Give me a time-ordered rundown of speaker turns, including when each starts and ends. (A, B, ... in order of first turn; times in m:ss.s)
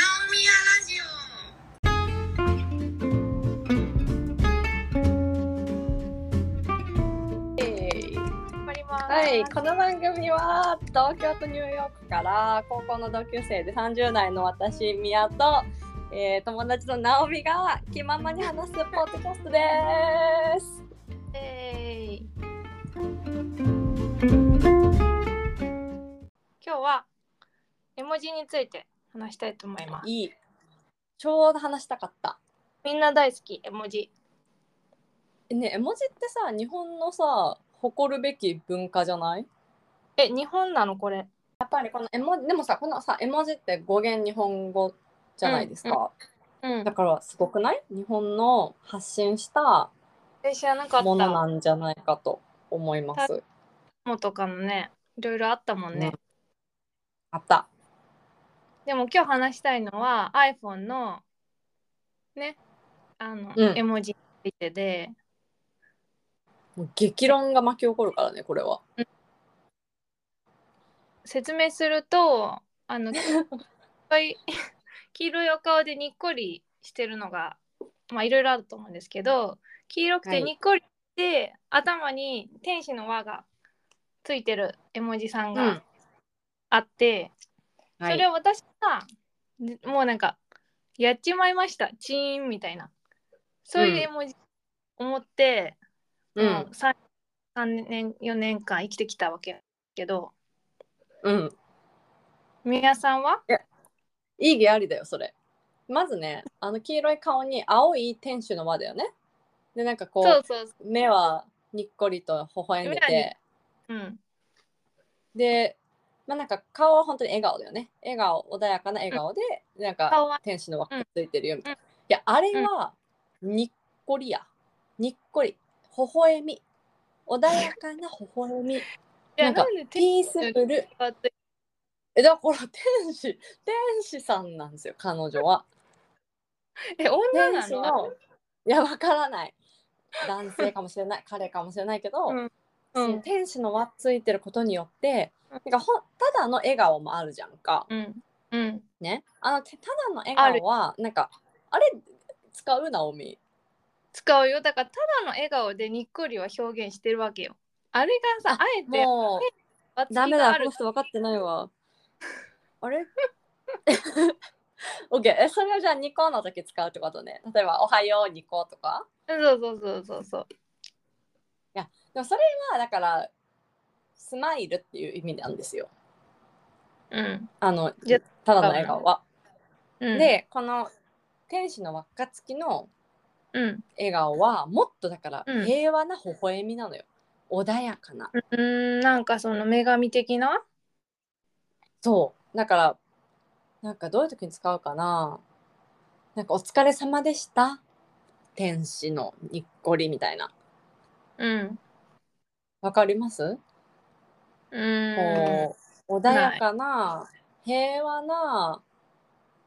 0:00.3-0:00.8 A
0:07.6-0:08.3 B
0:08.6-0:09.6 A
0:09.1-0:20.7 B
0:21.3-0:22.3 A
0:26.6-0:27.1 A
0:28.0-0:30.1 A
0:30.0-0:30.3 B
0:31.2-0:32.4 B
0:32.8-0:34.1 A
0:35.5-0:39.5 B
0:40.2-0:41.3 A
0:41.6-0:46.1 B
0:45.4-0:46.0 A
0:46.6-0:46.9 A
0:46.8-0:49.9 B
0:50.4-0:51.4 A
0:51.0-0:53.4 B
0:54.0-0:56.2 A
0:57.3-0:57.7 B
0:58.8-1:01.2 A
1:03.2-1:05.1 A
1:06.8-1:08.8 B
1:11.2-1:13.2 A
1:14.1-1:14.4 A
1:15.1-1:23.4 A
1:20.2-1:20.5 B
1:24.2-1:25.8 A
1:25.5-1:25.8 B
1:26.7-1:27.3 A
1:28.1-1:29.0 A
1:29.6-1:30.4 A
1:31.0-1:32.9 A
1:33.6-1:34.4 A
1:33.8-1:34.1 B
1:35.0-1:35.8 A
1:36.4-1:36.7 B
1:36.4-1:36.9 A
1:37.5-1:40.3 A
1:41.2-1:41.5 B
1:42.6-1:43.4 A
1:44.4-1:45.3 B
1:45.9-1:49.1 B
1:49.7-1:53.3 B
1:50.2-1:50.7 A
1:52.8-1:53.3 A
1:53.9-1:54.2 A
1:55.3-2:04.5 B
2:00.1-2:01.0 A
2:05.0-2:06.6 B
2:07.3-2:08.8 B
2:09.4-2:11.3 A
2:09.4-2:10.9 B
2:12.1-2:15.6 B
2:17.0-2:17.9 A
2:17.3-2:18.1 B
2:18.6-2:19.6 B
2:20.2-2:22.4 B
2:22.3-2:23.2 A
2:23.0-2:27.9 B
2:27.9-2:28.8 A
2:29.0-2:33.4 B
2:30.4-2:30.6 A
2:34.1-2:40.8 A
2:38.5-2:39.5 B
2:40.1-2:41.7 B
2:42.8-2:43.1 B
2:43.9-2:44.4 B
2:45.1-2:49.0 B
2:49.3-2:50.5 A
2:51.7-2:53.3 B
2:54.2-2:55.9 B
2:57.1-2:57.5 A
2:57.6-2:59.2 B
2:58.0-2:58.9 A
3:00.0-3:00.3 A
3:00.1-3:00.9 B
3:01.5-3:02.9 B
3:03.5-3:03.8 A
3:04.0-3:08.3 B
3:05.5-3:05.7 A
3:08.3-3:10.6 A
3:12.0-3:13.0 B
3:13.8-3:15.4 B
3:16.4-3:17.8 B
3:18.6-3:20.5 B
3:21.4-3:21.8 A
3:22.8-3:23.6 B
3:24.7-3:25.7 A
3:25.1-3:28.8 B
3:26.3-3:26.6 A